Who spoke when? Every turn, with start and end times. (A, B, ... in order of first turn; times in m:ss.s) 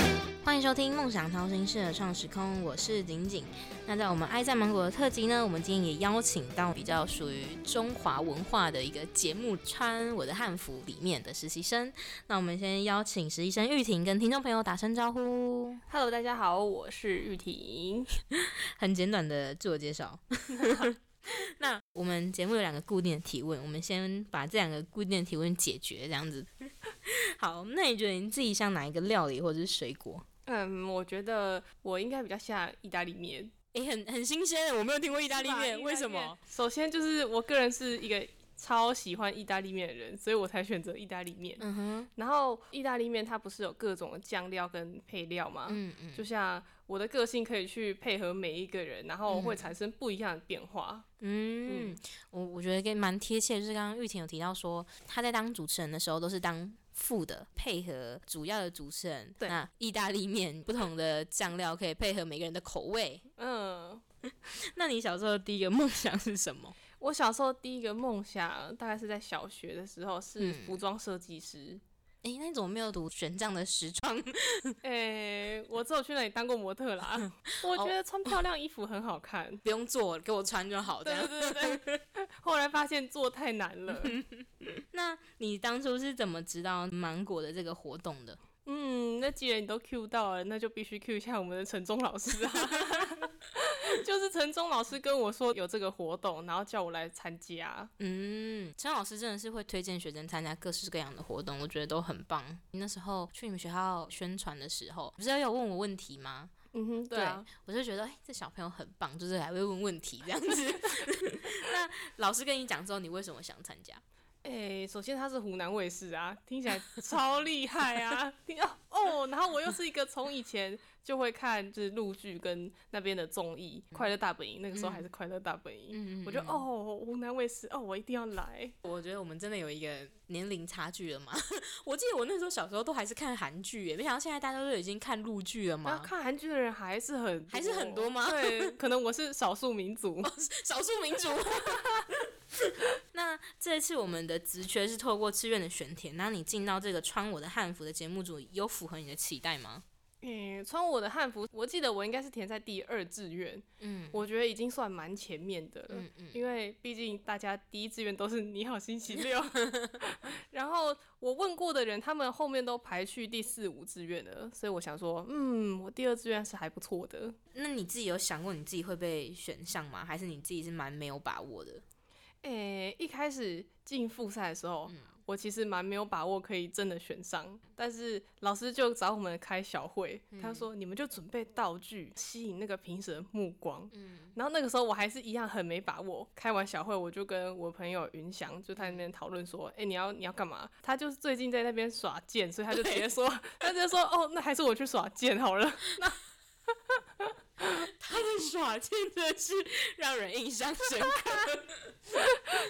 0:00.4-0:15.8 A
0:15.9-0:18.1 B
0:18.8-0:26.5 A
0:20.6-0:20.9 B
0:27.0-0:30.2 A
0:30.4-0:33.5 B
0:33.7-0:36.4 A
0:35.2-0:41.6 B
0:41.6-0:42.1 A
0:42.2-0:51.0 B
0:45.7-0:46.2 A
0:49.3-0:49.7 A
0:51.2-1:03.2 A
0:51.6-0:52.0 B
1:03.4-1:04.0 B
1:04.7-1:06.7 A
1:07.0-1:11.8 B
1:10.4-1:10.8 A
1:12.2-1:14.8 A
1:14.8-1:19.6 B
1:19.6-1:22.0 A
1:21.0-1:21.8 B
1:22.4-1:24.2 B
1:24.0-1:28.4 A
1:28.6-1:37.9 B
1:38.0-1:46.5 A
1:46.7-1:47.4 B
1:47.1-1:54.0 A
1:54.4-2:08.7 B
2:04.7-2:05.1 A
2:05.9-2:06.6 A
2:08.8-2:16.1 A
2:15.8-2:20.3 B
2:17.5-2:18.7 A
2:20.2-2:22.0 A
2:23.1-2:29.8 A
2:30.2-2:47.3 B
2:33.8-2:34.2 A
2:35.9-2:36.4 A
2:47.5-2:51.8 A
2:52.4-3:16.2 B
3:00.3-3:00.7 A
3:03.9-3:04.4 A
3:12.7-3:13.1 A
3:17.6-3:22.1 A